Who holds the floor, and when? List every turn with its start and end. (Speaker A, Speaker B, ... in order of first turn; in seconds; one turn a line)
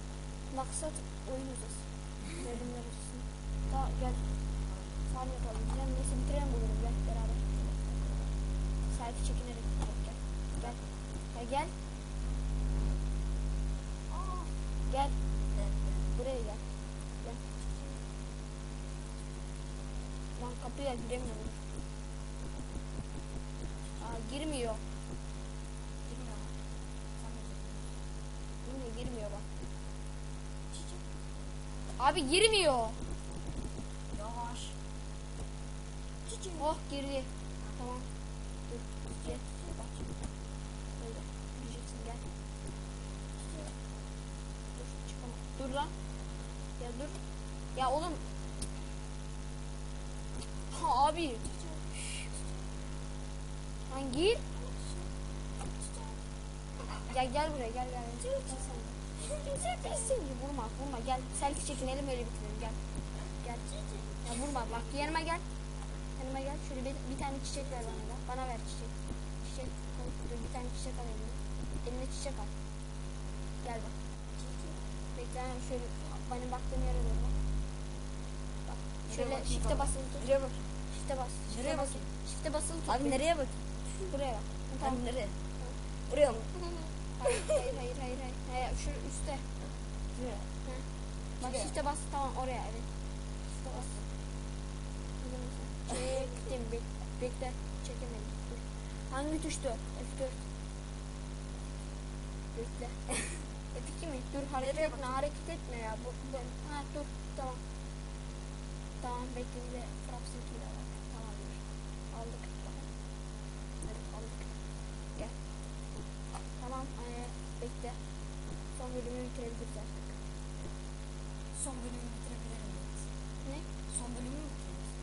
Speaker A: 0.5-4.2
Speaker B: 4.7-5.0
Speaker A: 5.1-8.3
Speaker A: 8.9-10.8
Speaker B: 10.5-11.0
Speaker A: 11.3-11.7
Speaker B: 14.1-14.5
Speaker A: 14.8-15.1
Speaker B: 15.5-16.1
Speaker A: 16.1-16.6
Speaker B: 17.6-18.0
Speaker A: 20.4-21.6
Speaker B: 23.8-24.1
Speaker A: 24.0-24.8
Speaker B: 26.1-26.5
Speaker B: 27.2-28.0
Speaker A: 28.6-29.5
Speaker B: 30.7-31.2
Speaker A: 31.9-33.0
Speaker B: 34.1-34.8
Speaker B: 36.2-36.7
Speaker A: 36.6-38.1
Speaker A: 38.7-39.4
Speaker B: 39.1-40.2
Speaker A: 41.0-42.2
Speaker B: 43.4-43.7
Speaker A: 44.7-45.9
Speaker A: 46.8-47.2
Speaker A: 47.7-48.3
Speaker A: 50.7-51.5
Speaker B: 51.5-52.6
Speaker A: 53.9-54.5
Speaker B: 54.5-55.1
Speaker B: 55.8-56.2
Speaker A: 56.9-62.8
Speaker B: 58.6-59.2
Speaker B: 63.4-65.2
Speaker A: 64.2-65.4
Speaker A: 66.2-72.5
Speaker B: 67.6-68.0
Speaker A: 73.6-74.0
Speaker B: 74.3-74.9
Speaker A: 75.1-77.3
Speaker A: 78.7-80.2
Speaker B: 79.1-80.7
Speaker A: 80.9-83.2
Speaker B: 81.5-82.1
Speaker B: 82.9-83.6
Speaker A: 84.1-85.0
Speaker B: 84.8-85.3
Speaker B: 86.1-87.4
Speaker A: 87.2-89.5
Speaker B: 90.1-90.5
Speaker A: 91.4-92.9
Speaker B: 91.4-91.7
Speaker B: 93.5-94.1
Speaker A: 95.2-100.4
Speaker A: 102.5-103.0
Speaker A: 103.7-107.6
Speaker B: 104.6-105.2
Speaker A: 109.0-112.9
Speaker A: 113.8-114.6
Speaker A: 116.6-118.0
Speaker A: 118.8-120.2
Speaker B: 121.5-123.1
Speaker B: 123.9-124.9